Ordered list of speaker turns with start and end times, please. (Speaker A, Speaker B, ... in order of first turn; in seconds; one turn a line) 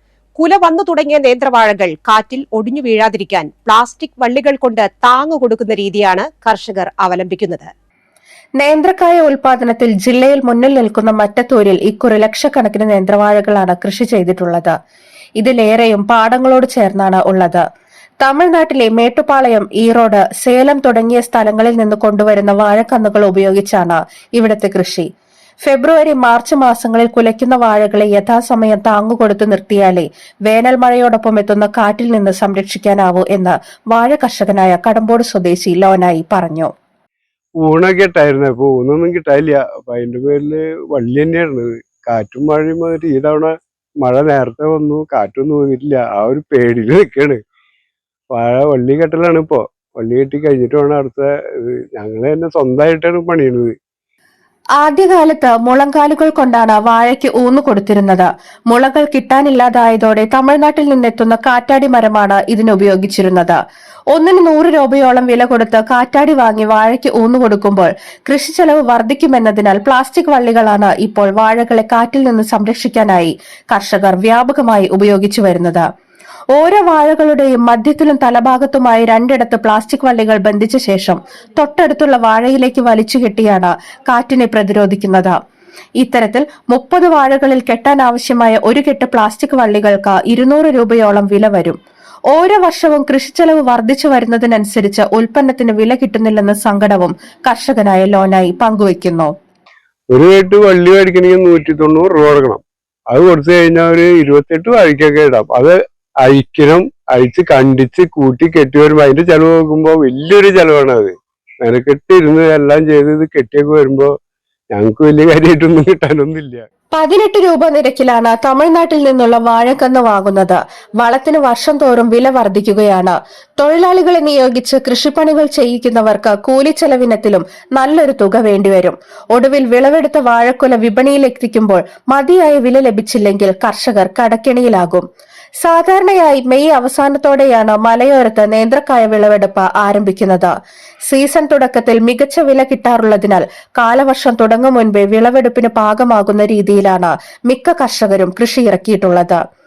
Speaker A: 0.4-7.7
Speaker B: 8.6-14.7
Speaker B: 15.4-17.6
Speaker B: 18.2-25.1
Speaker B: 25.6-36.7
Speaker C: 37.6-47.4
Speaker C: 48.3-53.7
Speaker B: 54.8-63.6
Speaker B: 64.1-75.8
Speaker B: 76.5-85.4
Speaker B: 86.0-91.8
Speaker B: 92.3-99.3
Speaker C: 100.1-114.1
Speaker C: 114.7-116.6
Speaker B: 116.9-135.1
Speaker B: 135.6-140.5
Speaker B: 141.1-149.4